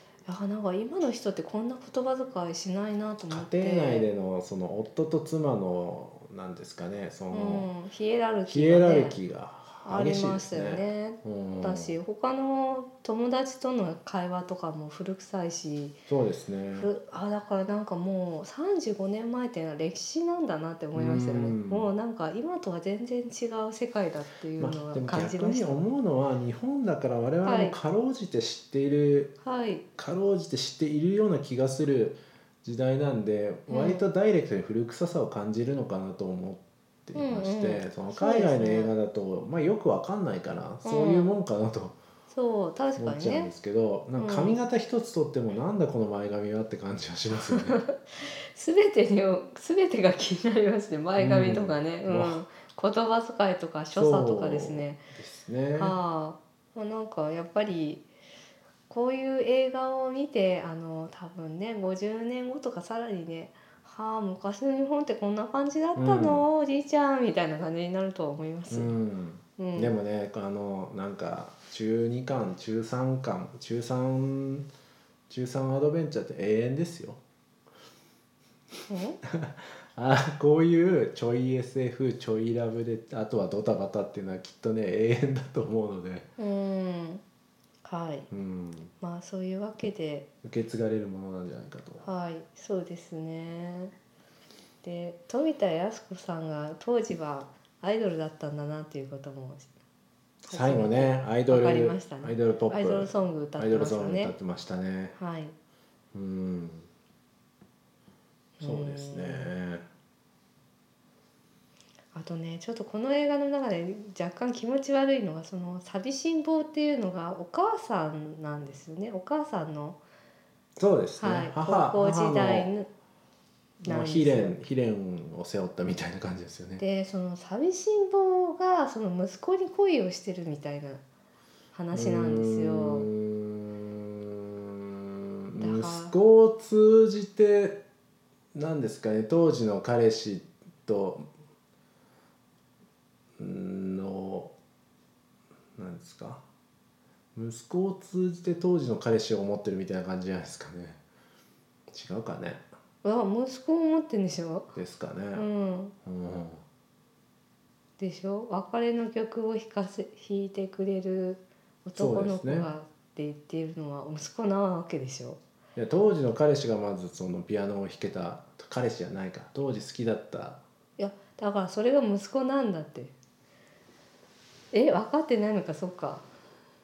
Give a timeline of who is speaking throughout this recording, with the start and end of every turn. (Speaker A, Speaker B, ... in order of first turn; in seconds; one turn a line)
Speaker A: 0.2-4.1
Speaker B: 3.3-7.7
Speaker A: 7.3-9.2
Speaker B: 8.5-12.0
Speaker A: 9.8-16.0
Speaker B: 16.1-16.9
Speaker A: 16.8-25.8
Speaker B: 20.9-21.9
Speaker B: 24.6-29.3
Speaker A: 27.4-27.8
Speaker A: 29.4-29.8
Speaker B: 29.9-42.0
Speaker A: 33.7-34.0
Speaker A: 37.1-38.9
Speaker A: 40.8-41.3
Speaker A: 42.3-43.5
Speaker B: 43.0-47.8
Speaker A: 44.2-44.6
Speaker A: 47.4-55.0
Speaker B: 51.2-52.4
Speaker B: 53.9-56.0
Speaker A: 55.8-58.0
Speaker A: 58.9-68.9
Speaker B: 66.0-66.4
Speaker B: 68.7-74.7
Speaker A: 69.6-69.9
Speaker B: 75.3-77.2
Speaker A: 78.9-79.2
Speaker B: 79.2-86.3
Speaker A: 86.4-87.2
Speaker A: 87.8-88.3
Speaker B: 88.3-88.9
Speaker A: 89.0-90.3
Speaker B: 90.4-92.1
Speaker A: 92.0-93.9
Speaker A: 94.8-99.7
Speaker A: 100.5-104.3
Speaker B: 100.5-105.2
Speaker A: 105.2-105.5
Speaker B: 106.1-106.9
Speaker A: 108.6-109.5
Speaker B: 108.6-109.8
Speaker A: 112.1-120.0
Speaker B: 120.8-122.7
Speaker A: 121.2-122.9
Speaker B: 123.8-126.8
Speaker A: 123.8-124.6
Speaker A: 126.8-131.0
Speaker A: 131.7-133.1
Speaker B: 131.9-137.8
Speaker A: 135.6-136.1
Speaker B: 138.5-141.3
Speaker B: 143.4-144.5
Speaker B: 145.8-146.4
Speaker B: 147.3-151.0
Speaker B: 151.9-152.6
Speaker A: 153.0-154.7
Speaker B: 154.7-155.5
Speaker A: 155.3-155.9
Speaker B: 156.0-156.6
Speaker A: 158.0-165.4
Speaker B: 161.9-162.7
Speaker B: 165.8-170.6
Speaker A: 171.0-173.1
Speaker A: 174.7-176.2